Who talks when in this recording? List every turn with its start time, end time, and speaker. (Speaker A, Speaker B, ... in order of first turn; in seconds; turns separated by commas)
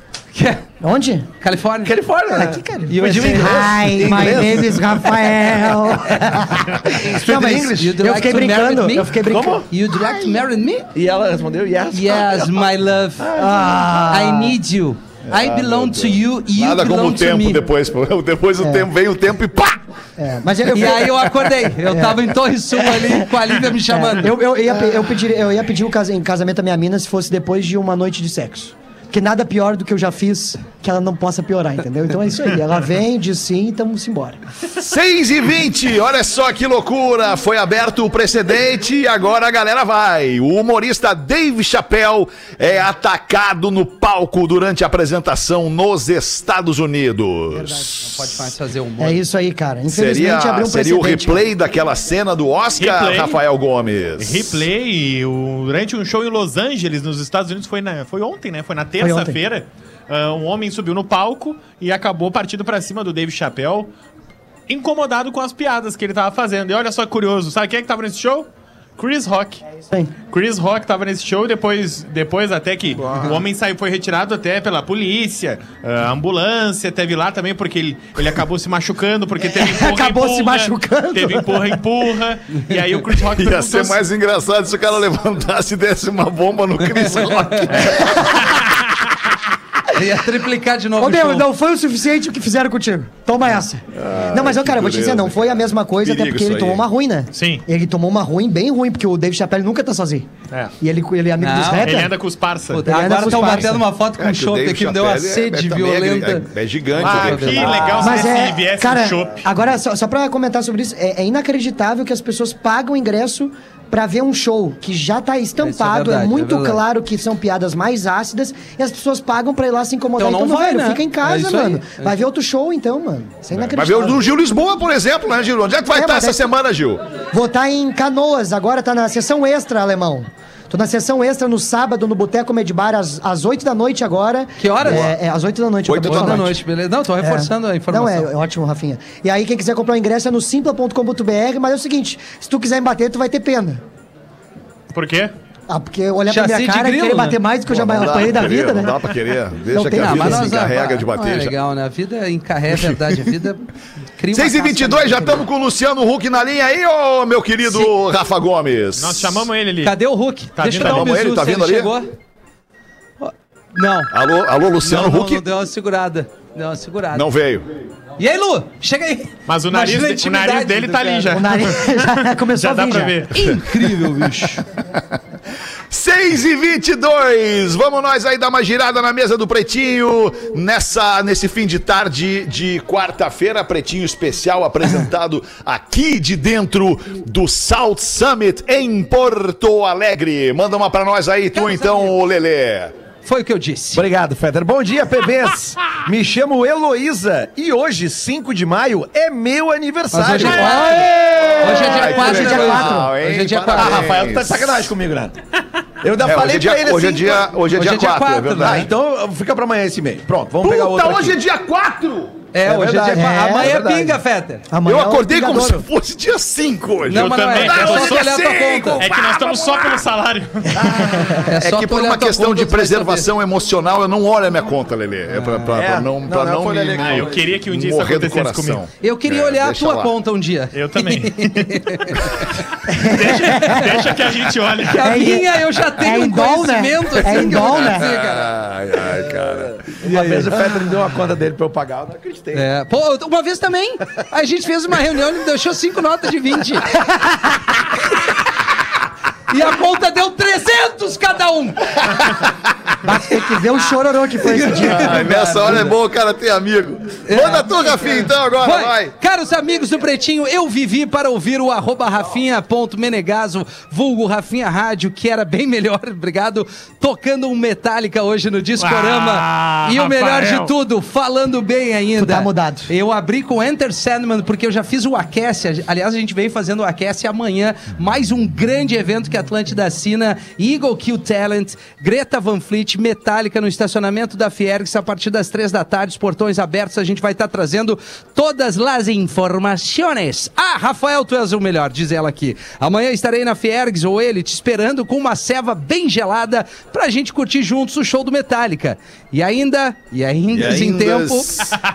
Speaker A: 0.3-0.6, Speaker B: 0.8-1.3, Speaker A: 1.4-1.9, Speaker C: 1.8-5.0, Speaker B: 2.3-9.6, Speaker A: 2.9-4.3, Speaker C: 6.8-8.0, Speaker A: 7.7-10.9, Speaker C: 9.2-9.7, Speaker C: 10.9-12.7, Speaker A: 11.9-13.3, Speaker C: 13.2-13.8, Speaker B: 13.3-14.6, Speaker A: 14.1-17.6, Speaker D: 15.3-19.8, Speaker B: 18.6-18.9, Speaker B: 20.2-22.3, Speaker A: 20.7-24.4, Speaker B: 22.8-23.3, Speaker B: 23.9-34.4, Speaker D: 34.7-48.1, Speaker B: 47.5-48.0, Speaker A: 48.0-49.2, Speaker B: 49.0-51.4, Speaker D: 49.9-54.7, Speaker E: 52.8-53.4, Speaker E: 54.2-63.9, Speaker B: 59.0-59.4, Speaker E: 64.7-69.6, Speaker E: 70.3-84.0, Speaker B: 79.5-81.8, Speaker D: 83.2-88.6, Speaker A: 87.0-87.8, Speaker A: 89.9-91.5, Speaker B: 91.0-100.3, Speaker D: 93.9-96.8, Speaker E: 97.3-97.6, Speaker B: 100.8-102.1, Speaker A: 101.4-102.0, Speaker E: 101.8-102.8, Speaker A: 102.7-108.0, Speaker B: 102.8-103.8, Speaker D: 104.2-108.2, Speaker E: 107.0-109.5, Speaker B: 108.0-124.2, Speaker A: 115.6-116.8, Speaker A: 120.2-122.1, Speaker D: 123.5-127.0, Speaker B: 125.9-126.4, Speaker B: 127.3-136.5, Speaker A: 134.6-135.1, Speaker D: 134.8-135.1, Speaker D: 135.8-136.6, Speaker A: 136.0-138.3, Speaker B: 137.2-143.8, Speaker E: 144.9-145.3, Speaker B: 145.7-149.0, Speaker A: 146.3-147.4, Speaker D: 147.7-151.5, Speaker B: 149.7-150.5, Speaker A: 149.9-155.4, Speaker D: 152.7-153.3, Speaker D: 154.3-159.5, Speaker E: 159.0-159.9, Speaker A: 159.8-162.1, Speaker E: 160.6-161.1, Speaker D: 160.8-161.9, Speaker A: 163.2-164.1, Speaker D: 164.1-165.4, Speaker A: 164.8-167.3, Speaker D: 167.1-167.7, Speaker A: 168.2-171.4, Speaker E: 169.5-173.3, Speaker B: 171.3-173.2, Speaker A: 173.3-174.6, Speaker D: 175.9-192.9, Speaker A: 191.5-192.1, Speaker A: 193.2-194.0, Speaker C: 193.9-201.0, Speaker A: 200.1-204.2, Speaker D: 200.8-204.9, Speaker B: 201.6-203.1, Speaker C: 203.7-205.3, Speaker C: 206.0-207.5, Speaker D: 206.2-208.9, Speaker A: 207.7-208.9, Speaker C: 208.6-211.4, Speaker D: 210.6-212.4, Speaker A: 212.5-214.7, Speaker C: 212.6-214.2, Speaker B: 213.2-213.8, Speaker B: 214.7-215.8, Speaker D: 214.8-220.1, Speaker A: 217.1-219.1, Speaker E: 217.1-218.3, Speaker E: 219.0-221.2, Speaker B: 220.9-221.4, Speaker D: 221.4-230.1, Speaker A: 221.4-223.3, Speaker A: 225.3-225.8, Speaker C: 225.7-227.3, Speaker E: 227.0-228.8, Speaker A: 229.0-234.1, Speaker E: 230.7-232.2, Speaker B: 232.9-233.9, Speaker E: 233.0-235.1, Speaker A: 234.8-238.5, Speaker B: 235.0-238.2, Speaker D: 237.6-239.8, Speaker C: 239.8-242.7, Speaker A: 240.0-240.5, Speaker A: 242.5-247.4, Speaker A: 249.5-252.2, Speaker B: 253.0-255.2, Speaker A: 254.4-255.9, Speaker D: 254.7-259.1, Speaker A: 257.2-301.6, Speaker E: 268.8-270.7, Speaker B: 272.1-272.9, Speaker D: 300.5-301.8